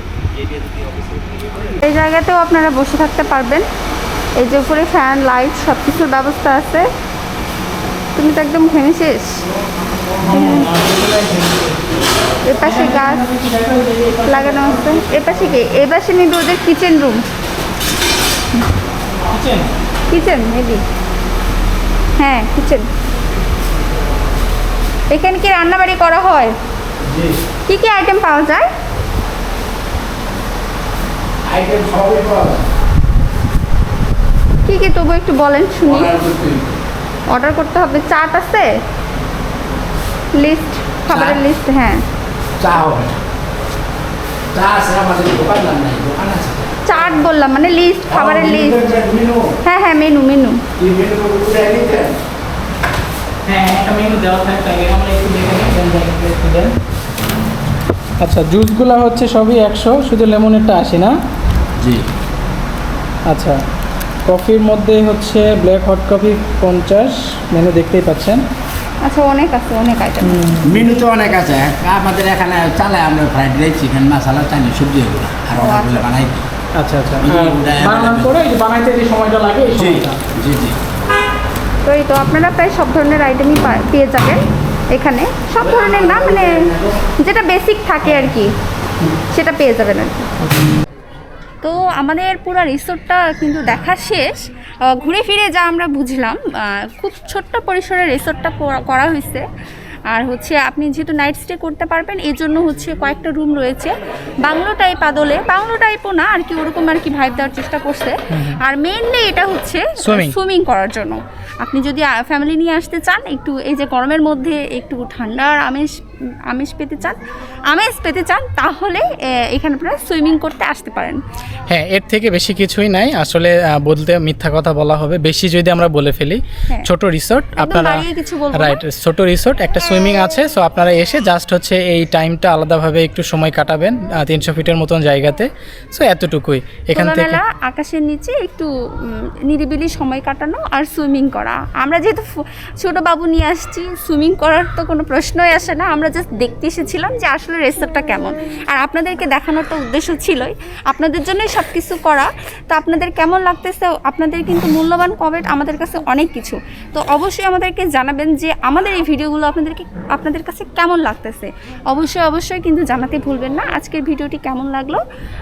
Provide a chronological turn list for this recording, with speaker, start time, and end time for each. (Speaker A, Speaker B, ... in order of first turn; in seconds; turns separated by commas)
Speaker A: 1.8-3.7, Speaker A: 4.4-6.9, Speaker A: 8.2-9.4, Speaker B: 10.2-11.8, Speaker A: 10.3-10.7, Speaker A: 12.4-13.2, Speaker B: 12.5-15.6, Speaker A: 14.2-17.2, Speaker B: 19.2-19.7, Speaker A: 20.1-20.8, Speaker A: 22.2-22.9, Speaker A: 25.1-26.5, Speaker C: 27.1-27.4, Speaker A: 27.7-28.7, Speaker C: 31.4-32.6, Speaker A: 34.6-36.1, Speaker C: 35.9-36.7, Speaker A: 37.3-38.7, Speaker A: 40.3-42.0, Speaker C: 41.1-41.4, Speaker C: 42.6-43.2, Speaker C: 44.5-46.8, Speaker A: 46.9-48.9, Speaker C: 48.1-49.6, Speaker A: 49.6-50.6, Speaker C: 50.8-52.2, Speaker B: 53.5-56.7, Speaker B: 58.2-61.1, Speaker C: 61.8-62.0, Speaker B: 63.3-63.6, Speaker B: 64.3-68.4, Speaker A: 69.0-70.6, Speaker B: 70.2-70.9, Speaker C: 70.6-76.4, Speaker A: 75.5-76.1, Speaker B: 76.8-80.2, Speaker C: 77.2-78.3, Speaker C: 79.8-80.8, Speaker A: 81.8-88.5, Speaker C: 85.8-86.8, Speaker A: 89.3-90.3, Speaker A: 91.6-99.4, Speaker A: 100.1-115.9, Speaker B: 108.3-108.6, Speaker B: 110.0-110.3, Speaker A: 116.5-117.2, Speaker A: 117.7-121.2, Speaker B: 121.7-137.4, Speaker A: 127.5-128.8, Speaker A: 136.9-165.0